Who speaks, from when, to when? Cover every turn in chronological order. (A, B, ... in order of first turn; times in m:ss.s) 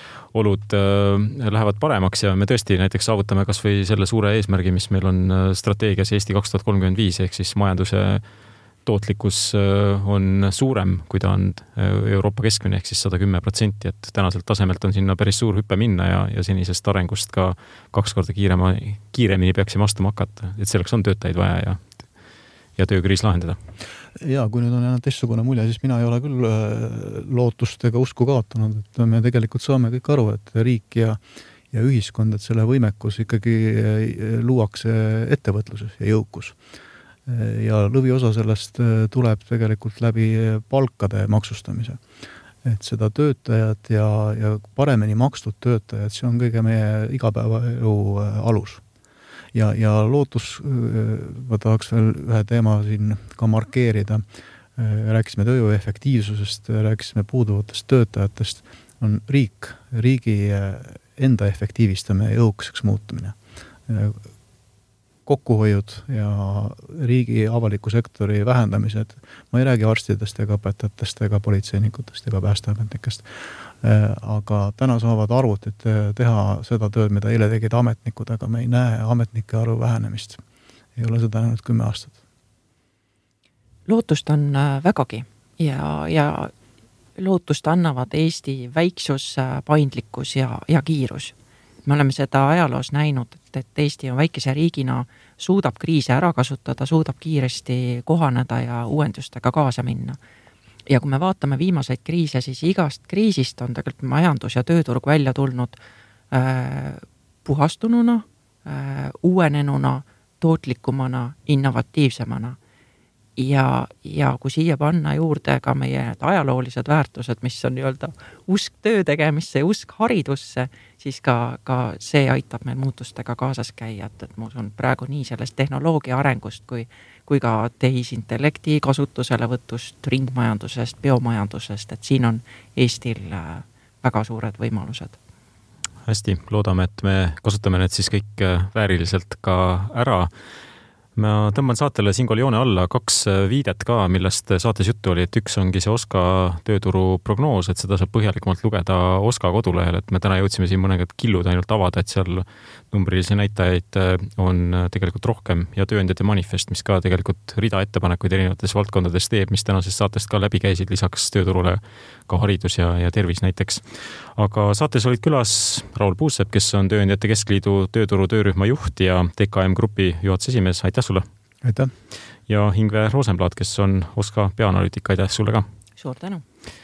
0:00.3-0:08.2 A
0:08.8-0:21.8 A
0:22.8-0:23.6 A
0:24.2-0:31.2 B
0:31.7-0:36.6 B
0:37.3-0:42.0 B
0:42.6-0:48.8 B
0:49.5-0:54.2 B
0:54.8-1:03.4 B
1:03.9-1:04.2 B
1:05.3-1:13.3 B
1:13.8-1:20.4 B
1:21.0-1:22.2 B
1:23.9-1:26.5 C
1:27.2-1:31.3 C
1:31.9-1:40.2 C
1:40.9-1:45.8 C
1:46.3-1:52.6 C
1:53.4-2:15.2 C
2:16.1-2:20.3 A
2:21.2-2:43.8 A
2:44.4-2:51.3 A
2:51.6-2:51.9 B
2:52.5-2:55.7 A
2:56.0-2:56.4 C